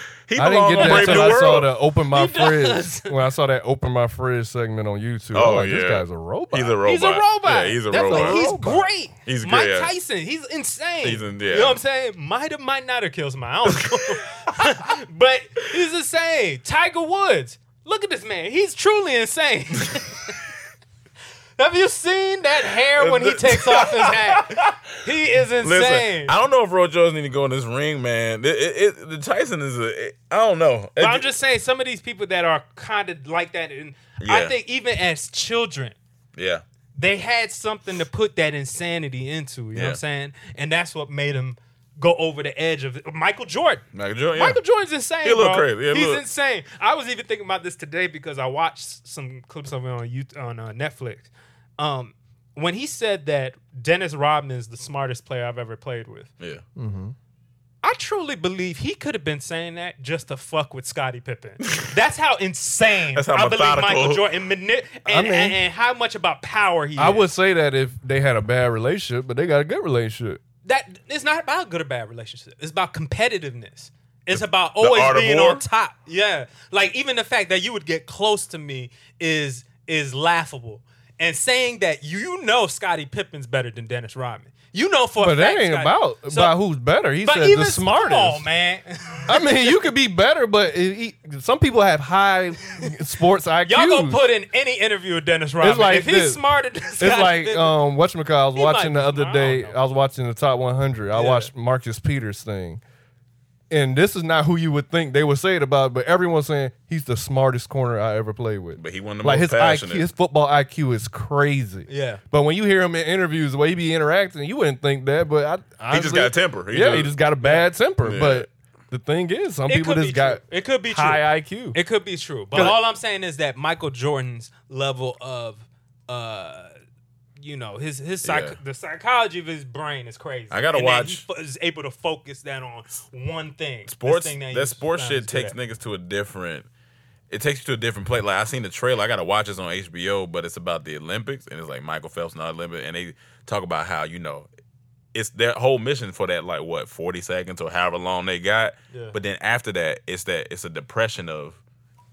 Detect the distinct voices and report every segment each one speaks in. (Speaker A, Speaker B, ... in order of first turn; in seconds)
Speaker A: 0.3-1.7, 5.3-8.4, 9.2-9.9, 11.0-11.8, 22.9-24.8, 25.6-31.3, 34.2-34.5, 36.4-36.6, 39.7-40.0, 43.9-44.6, 45.2-46.2, 61.6-61.9, 63.1-64.3, 74.3-75.6, 108.8-110.1, 115.9-117.1, 118.0-118.5, 128.2-128.6, 130.5-131.2, 133.9-136.7, 137.3-144.5, 145.1-151.6
Speaker B: 0.3-6.8, 7.9-8.9, 56.8-57.1, 65.0-65.6, 67.0-70.4, 85.2-88.4, 89.3-94.2, 95.6-96.4, 97.0-102.8, 103.7-121.8
Speaker C: 0.8-3.2, 6.8-20.4, 21.6-26.3, 31.0-36.0, 37.0-56.3, 57.8-67.3, 70.6-86.5, 87.2-89.5, 93.7-97.8, 98.5-99.8, 101.1-101.5, 111.9-112.2, 117.4-117.7, 119.7-126.7, 127.4-135.6, 148.9-149.2